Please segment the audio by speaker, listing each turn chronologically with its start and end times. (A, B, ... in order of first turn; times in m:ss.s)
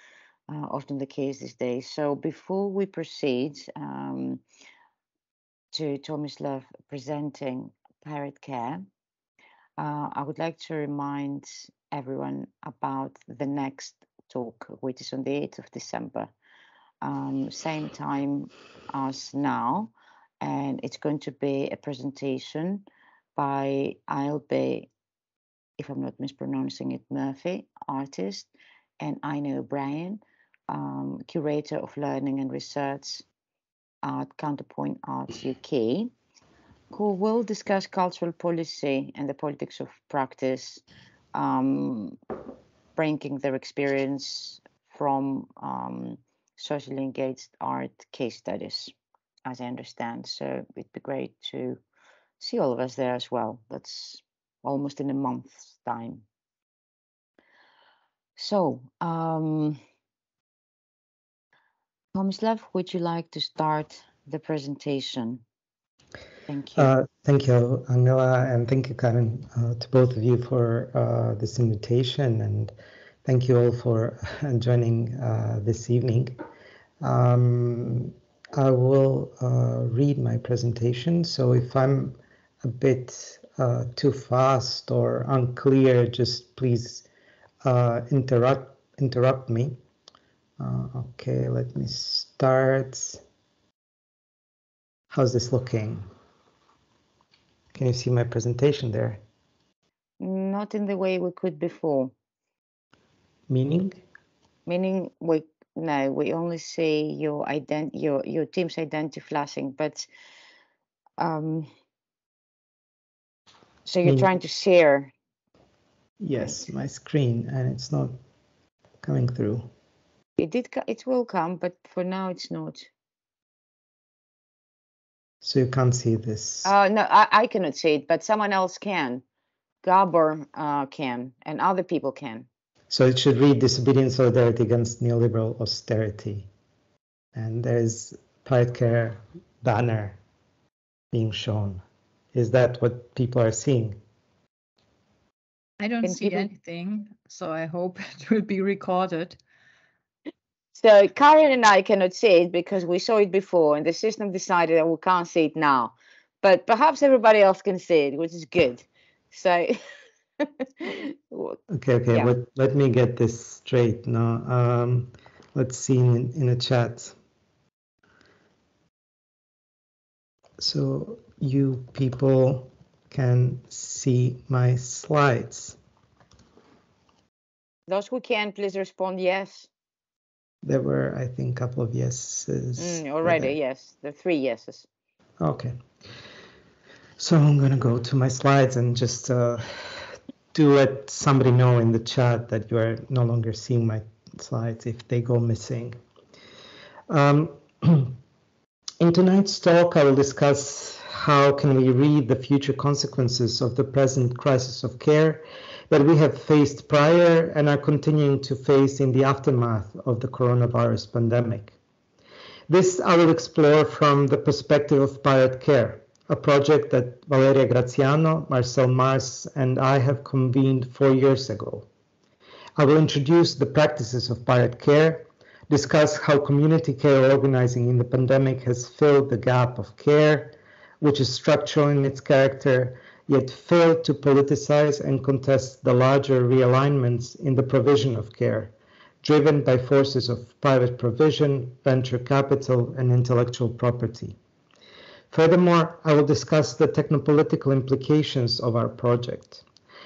0:00.5-0:04.4 A
0:05.7-0:08.8 A
0:09.8-0:16.3 A
0:17.0-0:22.8 A
0:23.4-0:24.9 A
0:25.8-0:28.5 A
0:29.0-0:33.2 A
0:34.0-0:36.1 A
0:36.9-0:40.8 A
0:41.3-0:42.2 A
0:43.0-0:48.9 A
0:49.4-0:51.8 A
0:52.4-0:56.2 A
0:58.4-0:59.8 A
1:02.1-1:05.4 A
1:06.5-1:06.9 A
1:06.8-1:12.7 B
1:13.2-1:16.3 B
1:17.0-1:27.0 B
1:27.6-1:29.8 B
1:30.6-1:33.2 B
1:35.1-1:36.0 B
1:37.7-1:39.2 B
1:40.2-1:42.1 A
1:43.5-1:44.0 B
1:44.7-1:50.1 A
1:51.2-1:51.7 A
1:53.8-1:55.1 A
1:56.2-1:58.2 B
1:59.0-1:59.7 B
2:00.4-2:02.9 A
2:05.4-2:06.7 B
2:06.6-2:09.2 A
2:09.8-2:12.5 A
2:12.9-2:16.5 B
2:17.3-2:20.2 B
2:21.1-2:21.8 B
2:22.3-2:24.0 B
2:25.8-2:29.4 C
2:26.0-2:26.5 A
2:30.8-2:39.8 A
2:40.4-2:41.6 A
2:41.7-2:47.1 B
2:50.6-2:55.8 B
2:57.9-2:59.7 A
3:00.6-3:03.5 B
3:02.8-3:04.8 A
3:05.4-3:05.8 B
3:07.2-3:09.6 B
3:10.5-3:16.0 B
3:17.1-3:18.2 B
3:19.0-3:31.7 B
3:32.7-3:41.9 B
3:42.8-4:04.4 B
4:05.3-4:09.6 B